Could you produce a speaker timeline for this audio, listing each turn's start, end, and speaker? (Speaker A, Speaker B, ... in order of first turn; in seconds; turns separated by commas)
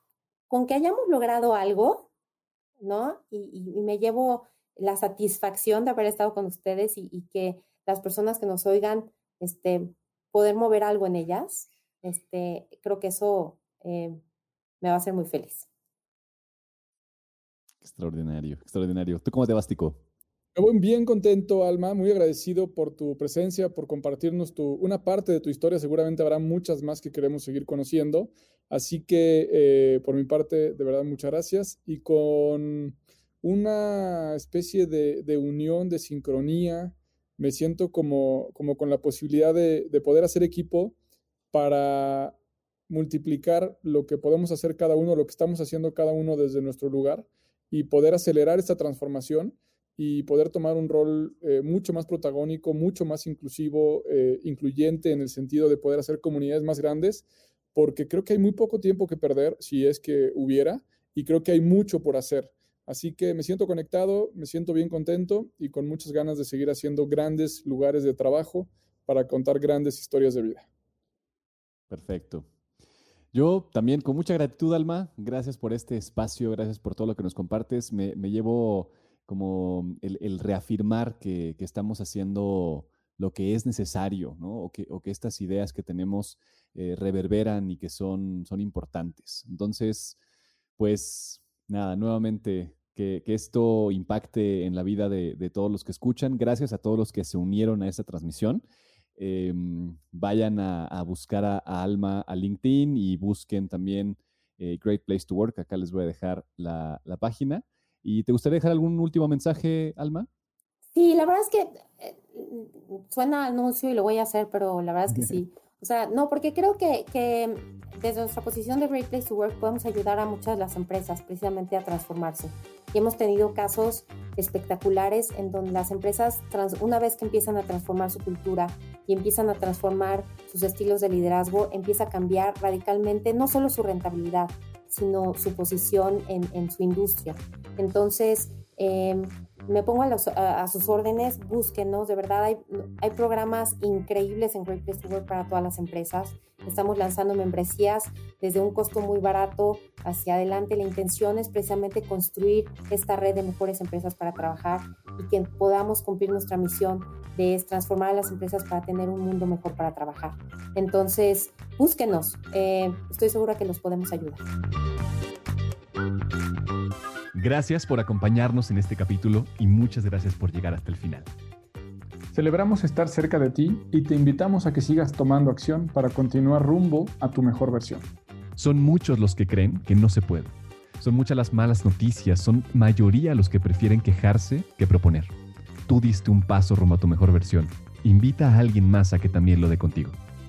Speaker A: 0.5-2.1, Speaker A: 2.8-14.2, Speaker A: 14.8-15.7, Speaker B: 17.8-20.0, Speaker C: 20.6-41.0, Speaker C: 41.5-42.4, Speaker C: 42.9-70.7, Speaker B: 71.9-72.5, Speaker B: 73.3-90.2, Speaker B: 90.8-98.6, Speaker B: 99.2-110.3, Speaker A: 110.9-164.5, Speaker B: 167.3-171.3, Speaker C: 172.3-178.1, Speaker B: 178.6-185.3, Speaker B: 185.9-190.2